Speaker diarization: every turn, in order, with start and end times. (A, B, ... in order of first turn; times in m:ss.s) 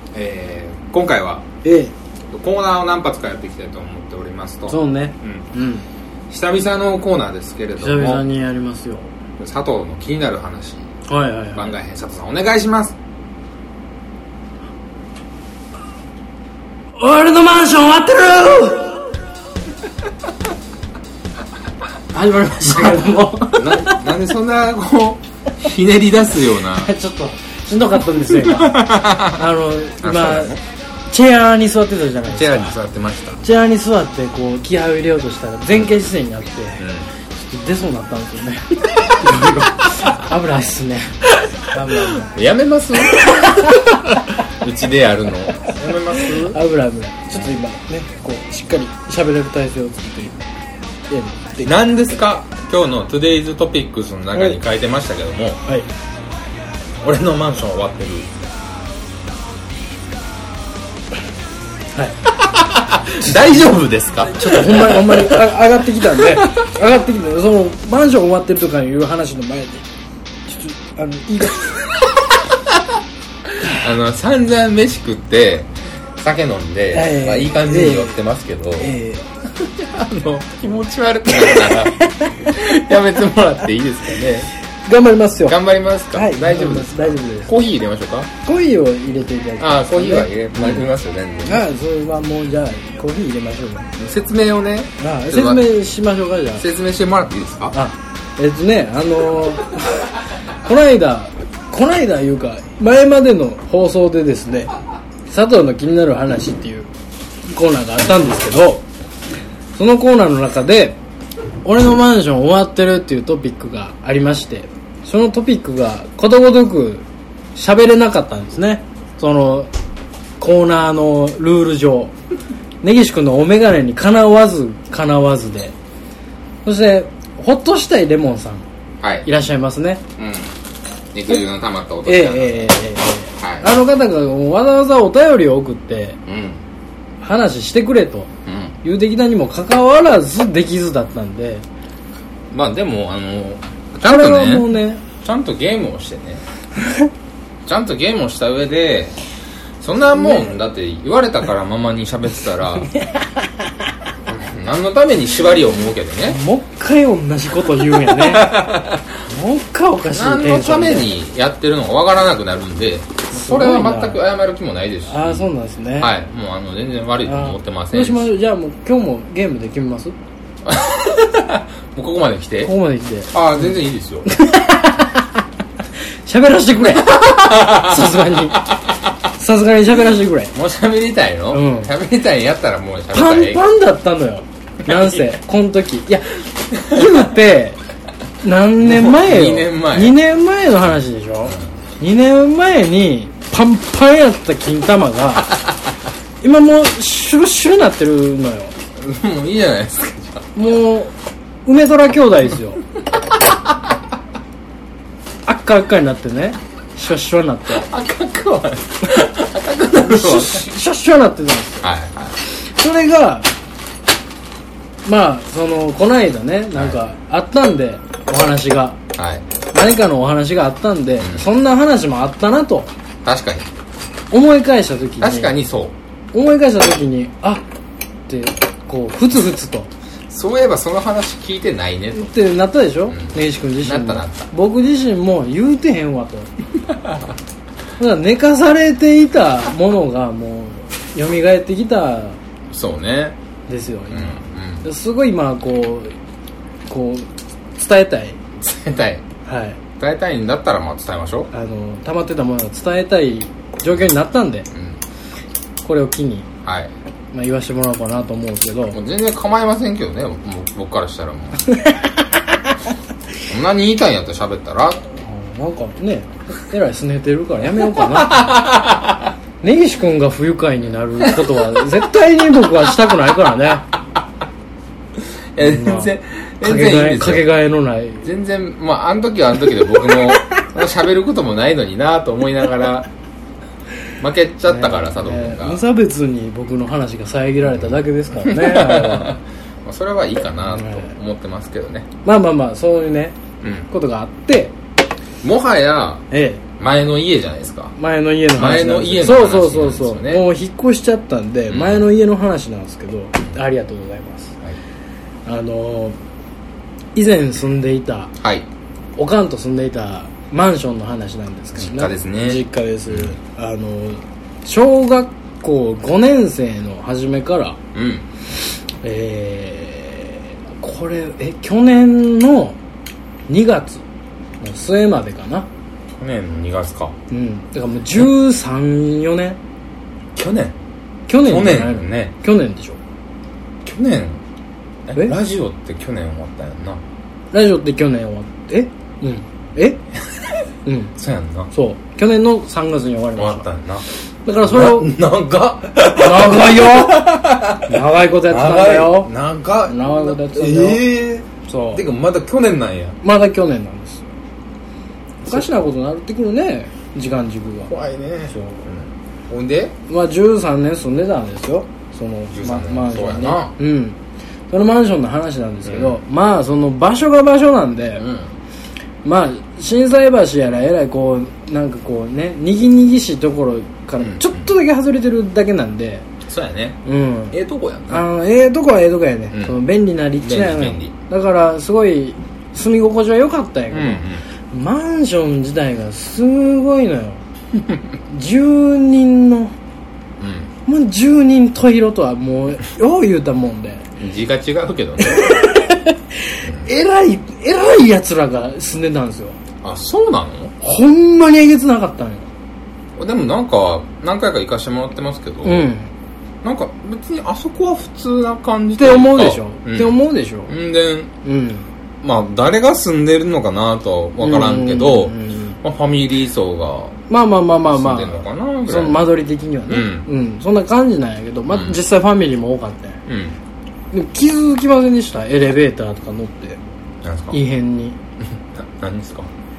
0:00.1-0:01.5 A
0:01.6-0:01.9 B
0:02.3-0:05.5 A
0:04.7-0:05.8 B
0:06.3-0:08.2 A
0:07.8-0:09.1 B
0:09.4-0:10.9 A
0:11.1-0:11.7 B
0:11.6-0:13.0 A
0:17.0-0:19.1 B
0:22.1-0:24.0 B
0:23.5-0:26.9 A
0:26.7-0:30.6 B
0:28.3-0:29.5 A
0:30.0-0:30.6 A
0:31.1-0:32.8 B
0:32.3-0:33.4 A
0:33.4-0:42.3 B
0:36.8-0:37.1 A
0:39.8-0:40.1 A
0:41.2-0:46.6 A
0:45.6-0:50.4 B
0:51.1-0:51.9 B
0:51.6-0:55.6 A
0:57.0-0:58.3 A
1:02.4-1:05.5 A
1:04.3-1:09.8 B
1:06.0-1:06.6 A
1:10.5-1:12.0 B
1:12.4-1:12.8 A
1:13.5-1:18.9 A
1:16.9-1:18.2 B
1:18.8-1:19.3 B
1:19.6-1:24.5 A
1:21.3-1:22.4 B
1:24.8-1:25.6 B
1:25.5-1:28.3 A
1:26.1-1:27.5 B
1:28.4-1:30.8 B
1:29.6-1:31.6 A
1:31.4-1:33.9 B
1:34.0-1:35.7 A
1:35.0-1:36.6 B
1:36.6-1:37.8 A
1:37.7-1:40.1 B
1:40.6-1:44.7 B
1:45.3-1:46.9 B
1:47.5-1:48.9 B
1:49.8-1:51.0 B
1:51.6-1:57.0 B
1:57.6-1:59.7 B
2:00.4-2:02.1 B
2:02.8-2:05.7 B
2:06.6-2:08.7 B
2:09.0-2:09.3 A
2:09.2-2:10.0 B
2:10.2-2:10.5 A
2:11.1-2:12.7 A
2:12.1-2:16.2 B
2:13.4-2:13.7 A
2:16.3-2:16.6 A
2:17.2-2:18.3 B
2:18.5-2:18.8 A
2:18.8-2:21.6 B
2:22.5-2:26.4 A
2:24.0-2:25.0 B
2:27.7-2:29.2 A
2:29.8-2:32.9 A
2:30.1-2:30.5 B
2:32.9-2:33.3 B
2:34.3-2:36.4 A
2:36.2-2:38.6 B
2:37.9-2:39.2 A
2:39.3-2:41.1 B
2:40.1-2:48.3 A
2:43.3-2:44.2 B
2:45.1-2:46.1 B
2:47.2-2:50.2 B
2:50.6-2:52.7 A
2:52.6-2:53.8 B
2:53.3-2:54.3 A
2:54.3-2:55.4 B
2:56.3-2:58.7 B
2:56.9-2:58.9 A
2:59.4-3:00.5 B
3:00.5-3:03.6 A
3:01.5-3:01.9 B
3:03.1-3:07.8 B
3:06.7-3:07.1 A
3:08.4-3:15.5 B
3:08.8-3:10.2 A
3:16.4-3:18.7 B
3:19.0-3:20.5 A
3:20.6-3:21.1 B
3:21.7-3:22.8 B
3:25.5-3:27.9 B
3:27.7-3:30.7 A
3:30.0-3:31.9 B
3:31.8-3:32.4 A
3:32.4-3:33.5 B
3:35.1-3:39.0 B
3:39.2-3:39.5 A
3:39.7-3:42.9 B
3:41.2-3:41.5 A
3:43.2-3:43.7 A
3:44.3-3:45.6 B
3:45.2-3:45.9 A
3:46.3-3:47.6 B
3:48.3-3:49.9 B
3:50.3-3:52.3 A
3:52.1-3:56.5 B
3:53.1-3:54.5 A
3:58.0-4:02.4 B
4:02.7-4:03.4 A
4:03.7-4:06.1 B
4:04.1-4:04.8 A
4:06.9-4:07.3 B
4:07.8-4:08.4 B
4:08.6-4:09.3 A
4:09.5-4:09.8 B
4:10.0-4:11.5 A
4:11.5-4:14.7 B
4:14.7-4:15.0 A
4:15.8-4:16.5 B
4:16.6-4:16.9 A
4:17.3-4:19.0 B
4:18.9-4:21.7 A
4:21.7-4:22.0 B
4:23.5-4:25.0 A
4:25.2-4:28.6 B
4:27.8-4:29.3 A
4:29.6-4:33.8 B
4:35.6-4:37.5 A
4:35.6-4:38.3 B
4:38.2-4:43.1 A
4:44.2-4:45.8 A
4:44.7-4:49.4 B
4:47.6-4:52.1 A
4:50.7-4:51.1 B
4:52.2-4:53.4 B
4:53.6-4:53.9 A
4:53.9-4:54.8 B
4:55.4-4:56.2 A
4:56.3-4:56.6 B
4:56.8-4:58.0 A
4:58.0-5:04.6 B
4:58.5-5:00.4 A
5:01.7-5:02.1 A
5:05.5-5:06.2 B
5:07.2-5:08.3 B
5:08.4-5:08.7 A
5:09.2-5:17.8 B
5:11.8-5:13.4 A
5:17.9-5:18.3 A
5:19.0-5:22.8 B
5:23.5-5:24.0 B
5:24.6-5:25.7 B
5:26.2-5:27.1 A
5:27.3-5:29.6 B
5:30.4-5:30.8 A
5:31.3-5:33.0 B
5:31.4-5:32.3 A
5:33.8-5:34.4 A
5:35.1-5:37.0 A
5:37.5-5:40.0 B
5:40.8-5:41.1 B
5:41.2-5:41.7 A
5:41.7-5:43.7 B
5:43.4-5:44.0 A
5:44.4-5:45.1 B
5:44.6-5:53.2 A
5:46.1-5:49.3 B
5:49.9-5:51.0 B
5:51.6-5:52.0 B
5:53.2-5:54.3 B
5:55.4-5:57.9 B
5:55.5-5:55.7 A
5:57.9-5:59.9 A
5:58.5-5:58.8 B
6:00.1-6:04.2 B
6:02.5-6:03.7 A
6:04.7-6:08.2 B
6:05.8-6:06.2 A
6:08.2-6:08.5 A
6:09.2-6:16.3 B
6:14.2-6:14.7 A
6:16.5-6:17.0 A
6:17.0-6:17.6 B
6:17.5-6:18.2 A
6:18.1-6:27.4 B
6:19.5-6:19.8 A
6:20.4-6:21.1 A
6:23.9-6:24.4 A
6:28.3-6:29.8 B
6:30.4-6:30.7 A
6:30.9-6:34.1 B
6:34.2-6:35.7 A
6:35.2-6:39.6 B
6:36.6-6:36.9 A
6:39.8-6:40.7 A
6:40.8-6:42.5 B
6:43.2-6:45.9 A
6:45.6-6:46.1 B
6:46.6-6:51.3 A
6:49.0-6:50.8 B
6:51.4-6:51.9 B
6:52.2-6:57.2 A
6:54.4-6:55.8 B
6:57.3-7:03.2 B
6:57.8-6:59.3 A
6:59.9-7:00.3 A
7:01.7-7:02.0 A
7:03.3-7:03.6 A
7:04.1-7:06.8 B
7:07.2-7:07.6 A
7:07.5-7:08.2 B
7:08.7-7:09.5 A